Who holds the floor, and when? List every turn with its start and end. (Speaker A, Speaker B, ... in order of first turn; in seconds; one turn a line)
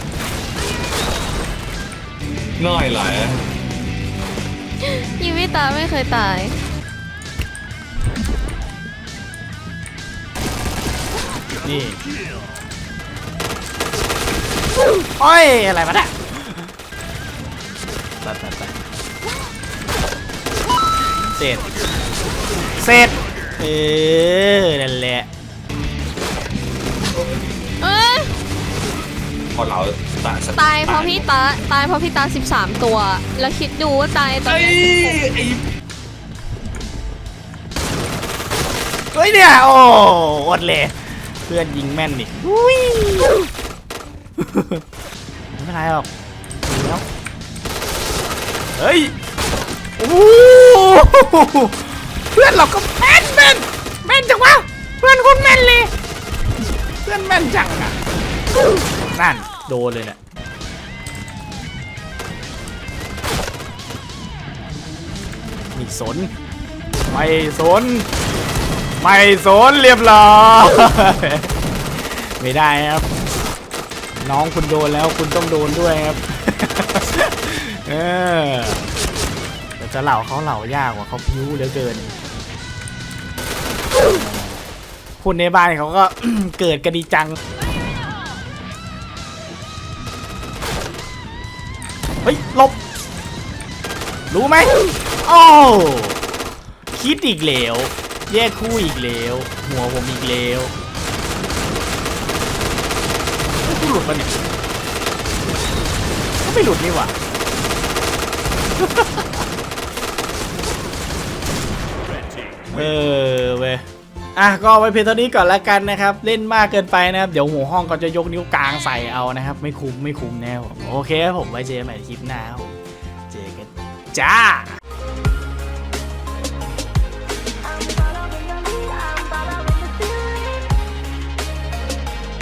Speaker A: 2.6-3.4
Speaker B: 4.8-6.5
Speaker C: 11.6-12.0
Speaker C: 15.2-16.7
Speaker C: 18.2-18.8
Speaker C: 21.4-21.7
Speaker C: 22.8-25.3
Speaker B: 27.8-28.3
Speaker A: 29.5-31.2
Speaker B: 30.5-35.2
Speaker A: 34.4-35.6
Speaker C: 39.1-43.4
Speaker C: 44.4-44.8
Speaker C: 45.5-47.0
Speaker C: 48.7-49.1
Speaker C: 50.0-55.9
Speaker C: 57.0-58.0
Speaker C: 59.1-60.2
Speaker C: 65.7-66.3
Speaker C: 67.1-68.1
Speaker C: 69.0-73.1
Speaker C: 74.2-78.9
Speaker C: 79.8-82.1
Speaker C: 84.0-84.6
Speaker C: 85.2-87.4
Speaker C: 92.2-92.8
Speaker C: 94.3-96.2
Speaker C: 96.9-100.7
Speaker C: 103.5-104.3
Speaker C: 106.4-107.2
Speaker C: 108.8-109.3
Speaker C: 112.7-113.8
Speaker C: 114.3-122.8
Speaker C: 123.3-124.8
Speaker B: 128.2-129.6